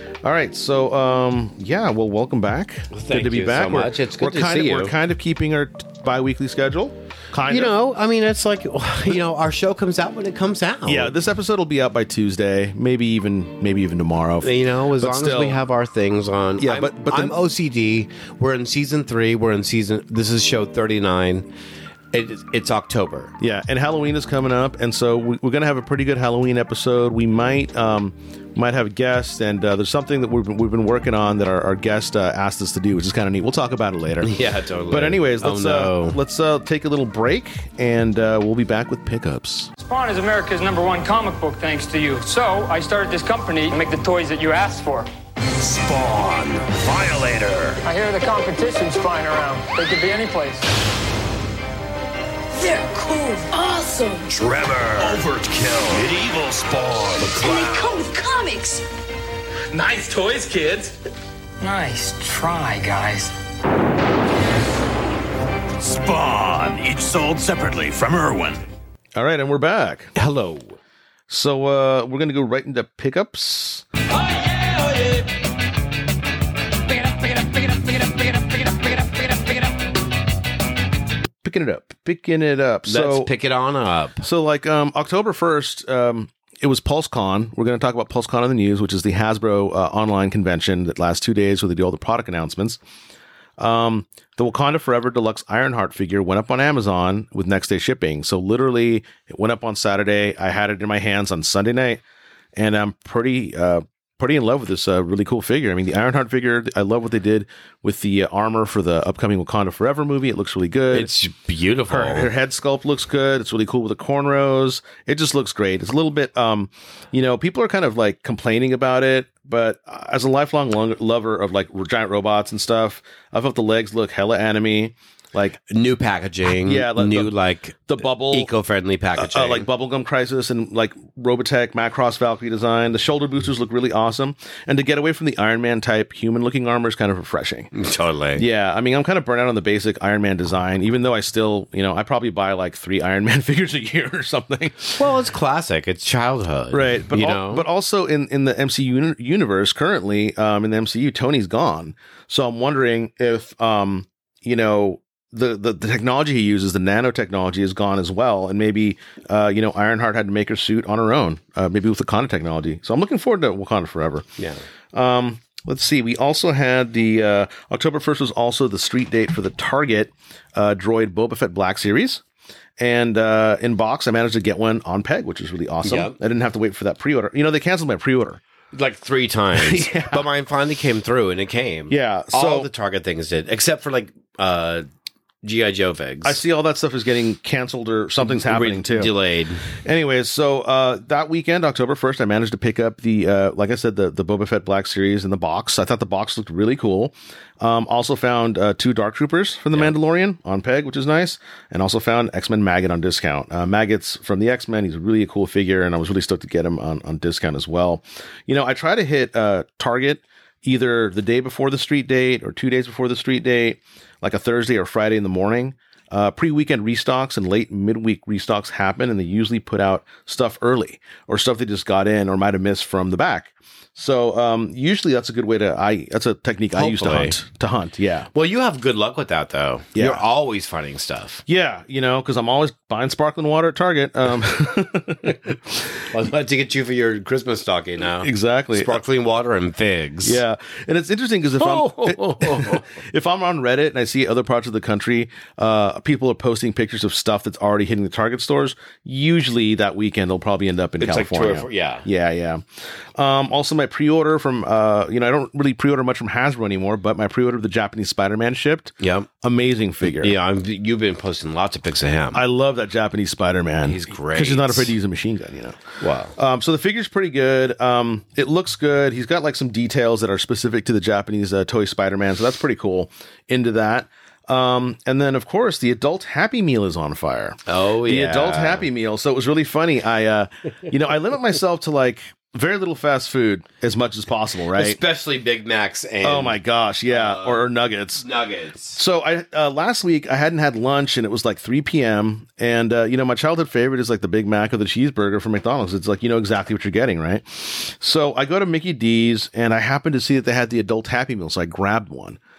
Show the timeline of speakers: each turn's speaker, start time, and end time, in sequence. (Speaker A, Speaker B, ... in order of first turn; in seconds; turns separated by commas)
Speaker A: 0.2-7.7, Speaker B: 2.9-5.0, Speaker B: 7.5-11.1, Speaker A: 10.9-15.6, Speaker B: 14.4-21.5, Speaker A: 16.6-17.4, Speaker B: 22.1-23.4, Speaker A: 23.4-34.3, Speaker B: 34.2-36.2, Speaker A: 34.9-39.7, Speaker C: 39.8-45.1, Speaker D: 45.6-47.8, Speaker C: 47.8-50.7, Speaker E: 52.6-54.4, Speaker D: 54.3-57.9, Speaker E: 57.3-58.9, Speaker C: 61.6-63.3, Speaker D: 65.8-68.6, Speaker A: 69.2-70.1, Speaker B: 70.2-70.8, Speaker A: 71.3-73.9, Speaker A: 81.4-83.3, Speaker B: 82.9-84.3, Speaker A: 84.2-92.8, Speaker A: 93.6-102.0, Speaker A: 102.5-111.1, Speaker B: 110.9-112.3, Speaker A: 111.9-125.6, Speaker B: 125.7-129.7, Speaker A: 126.5-127.3, Speaker A: 127.9-128.5, Speaker A: 129.2-137.7, Speaker B: 137.7-138.4, Speaker A: 138.4-145.0, Speaker B: 145.0-147.7, Speaker A: 146.7-164.3, Speaker B: 164.4-164.6, Speaker A: 164.9-172.2, Speaker A: 172.8-178.4, Speaker B: 175.8-176.2, Speaker B: 178.7-184.9, Speaker A: 179.6-180.2, Speaker A: 181.9-182.7, Speaker B: 185.4-186.4, Speaker A: 186.2-189.1, Speaker B: 188.2-189.7, Speaker A: 189.8-228.3, Speaker B: 226.8-227.4, Speaker B: 228.3-231.4, Speaker A: 229.9-230.2, Speaker A: 231.5-235.9, Speaker B: 236.1-240.4, Speaker A: 238.2-239.0, Speaker A: 240.2-260.3, Speaker B: 241.6-242.9, Speaker B: 251.0-252.1, Speaker B: 259.0-259.3, Speaker B: 260.2-262.4, Speaker A: 262.3-265.8, Speaker B: 263.8-264.9, Speaker B: 266.0-266.3, Speaker A: 266.4-285.0, Speaker B: 277.7-278.9, Speaker B: 284.7-289.0, Speaker A: 286.2-288.3, Speaker A: 288.9-302.4